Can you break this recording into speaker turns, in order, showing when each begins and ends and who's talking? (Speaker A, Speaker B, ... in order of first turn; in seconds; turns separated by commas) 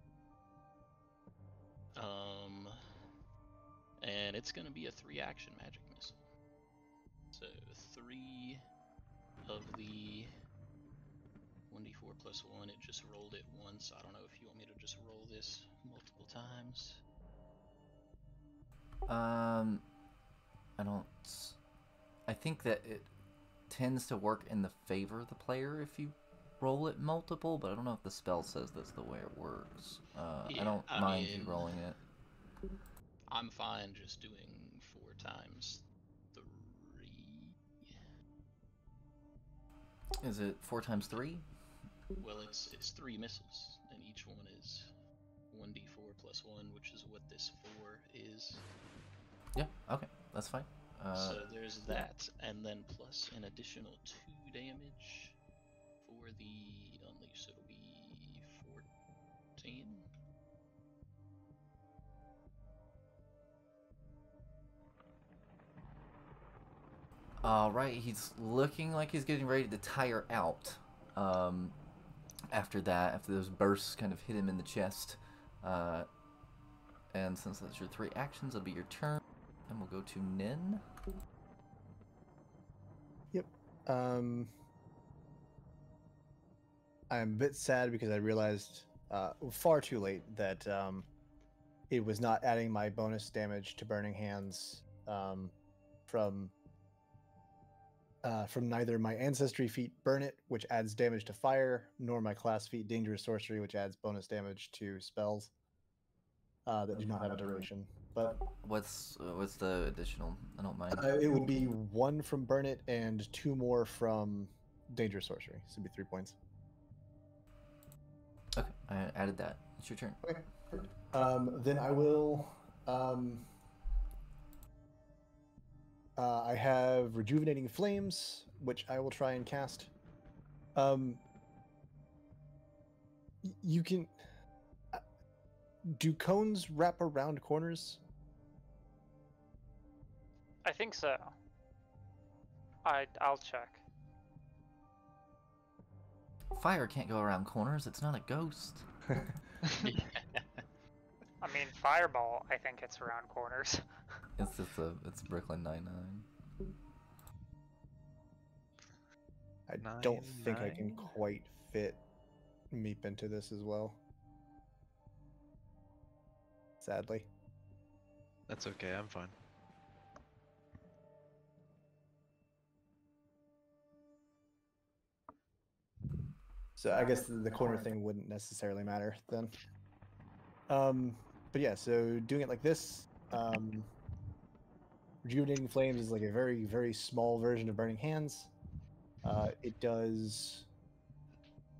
Speaker A: 1.9-2.8, Speaker A: 4.0-6.2, Speaker A: 7.3-8.6, Speaker A: 9.4-10.3, Speaker A: 11.7-17.0, Speaker B: 19.1-19.8, Speaker B: 20.8-21.6, Speaker B: 22.3-23.1, Speaker B: 23.7-32.0, Speaker A: 30.4-31.8, Speaker A: 33.3-38.1, Speaker B: 40.2-41.5, Speaker A: 42.1-44.9, Speaker A: 45.5-48.7, Speaker B: 49.5-51.4, Speaker A: 51.1-55.4, Speaker A: 56.0-58.9, Speaker A: 59.6-60.1, Speaker B: 67.4-71.8, Speaker B: 72.5-76.1, Speaker B: 77.1-80.8, Speaker C: 83.3-84.5, Speaker C: 87.1-91.1, Speaker C: 91.9-95.5, Speaker C: 96.1-96.5, Speaker C: 98.2-105.5, Speaker C: 106.7-108.4, Speaker B: 108.6-111.1, Speaker C: 110.9-116.3, Speaker B: 118.5-120.2, Speaker C: 120.2-123.5, Speaker C: 126.2-129.9, Speaker C: 130.7-131.2, Speaker C: 133.4-134.1, Speaker C: 135.8-138.0, Speaker D: 140.6-141.3, Speaker D: 142.8-143.8, Speaker B: 146.5-148.9, Speaker A: 149.8-150.6, Speaker D: 151.4-153.8, Speaker B: 154.4-156.3, Speaker C: 159.7-162.0, Speaker E: 159.8-161.0, Speaker C: 162.7-164.0, Speaker C: 166.8-167.3, Speaker E: 168.5-169.4, Speaker C: 176.8-179.5, Speaker C: 180.7-183.9, Speaker C: 185.2-188.5, Speaker C: 189.2-190.7